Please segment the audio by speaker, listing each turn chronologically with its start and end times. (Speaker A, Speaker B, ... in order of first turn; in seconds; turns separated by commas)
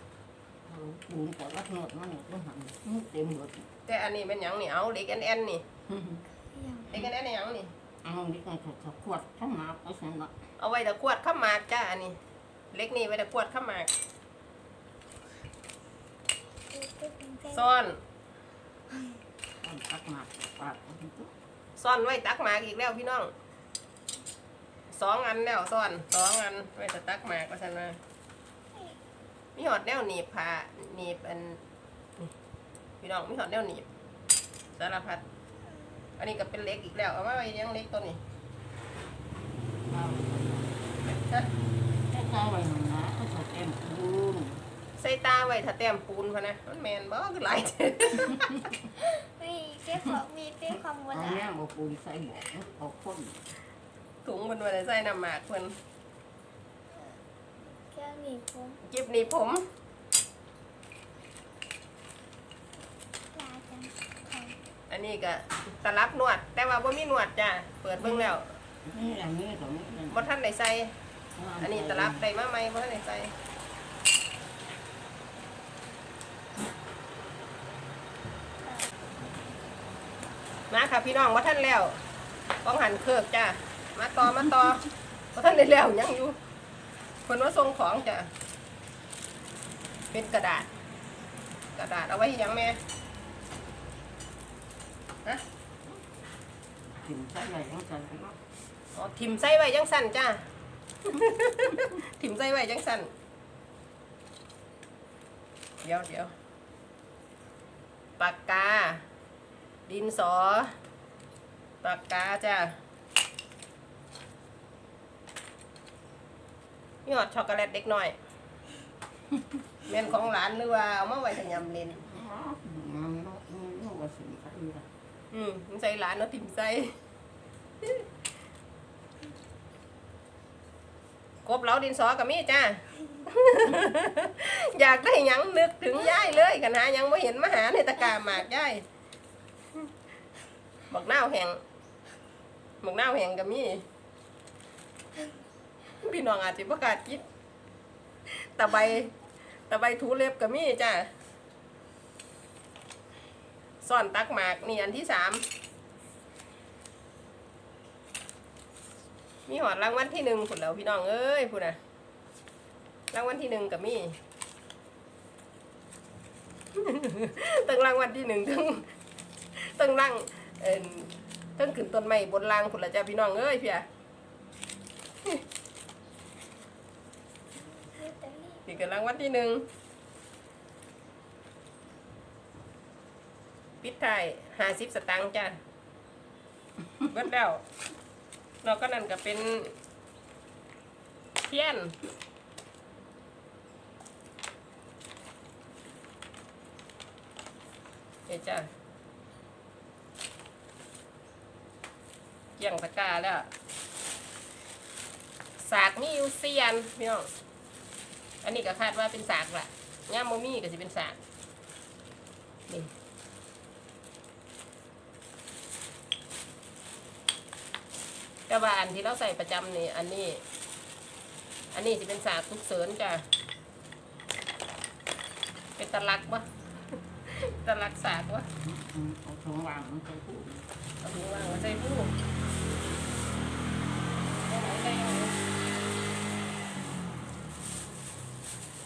Speaker A: 0.7-3.7, Speaker B: 3.9-5.6, Speaker A: 5.9-6.2, Speaker C: 6.5-6.9, Speaker B: 6.9-7.7, Speaker A: 8.0-10.3, Speaker B: 10.6-12.2, Speaker B: 12.7-13.9, Speaker C: 16.7-17.7, Speaker B: 17.5-18.0, Speaker A: 19.6-21.3, Speaker B: 21.8-23.3, Speaker B: 24.9-28.0, Speaker B: 29.6-31.6, Speaker B: 33.0-33.9, Speaker B: 34.8-35.2, Speaker B: 36.2-38.2, Speaker A: 39.9-40.8, Speaker A: 42.1-44.6, Speaker B: 45.0-48.7, Speaker C: 49.0-51.5, Speaker A: 50.7-53.4, Speaker B: 54.2-55.8, Speaker C: 56.9-58.8, Speaker B: 58.8-59.6, Speaker C: 63.3-64.6, Speaker B: 64.9-68.5, Speaker A: 68.0-70.3, Speaker B: 70.1-70.9, Speaker A: 71.3-72.2, Speaker B: 71.6-73.3, Speaker B: 80.7-82.0, Speaker B: 82.6-86.4, Speaker B: 87.3-88.3, Speaker B: 90.1-90.7, Speaker B: 91.8-92.8, Speaker A: 96.9-98.4, Speaker B: 98.9-100.5, Speaker B: 101.1-103.1, Speaker B: 105.8-106.3, Speaker B: 108.2-109.0, Speaker B: 109.9-110.7, Speaker B: 111.8-112.8, Speaker B: 117.0-118.2, Speaker B: 119.8-122.0, Speaker A: 122.0-124.9, Speaker B: 125.3-126.9, Speaker B: 131.4-138.8, Speaker B: 140.9-141.6, Speaker B: 142.8-143.8, Speaker B: 146.0-147.2, Speaker B: 148.3-149.1, Speaker B: 149.7-151.1, Speaker B: 153.8-155.4, Speaker B: 159.5-161.8, Speaker B: 163.1-164.2, Speaker B: 166.8-168.9, Speaker B: 169.6-173.9, Speaker C: 177.6-178.7, Speaker B: 178.7-179.7, Speaker B: 183.8-185.6, Speaker B: 187.1-187.6, Speaker B: 188.6-189.7, Speaker B: 191.5-192.0, Speaker B: 198.3-198.7, Speaker B: 202.6-203.5, Speaker B: 205.6-207.3, Speaker B: 208.4-211.2, Speaker B: 218.5-220.4, Speaker B: 221.7-223.2, Speaker B: 225.8-226.5, Speaker B: 227.3-228.5, Speaker A: 228.6-230.7, Speaker B: 231.0-232.1, Speaker B: 234.4-235.3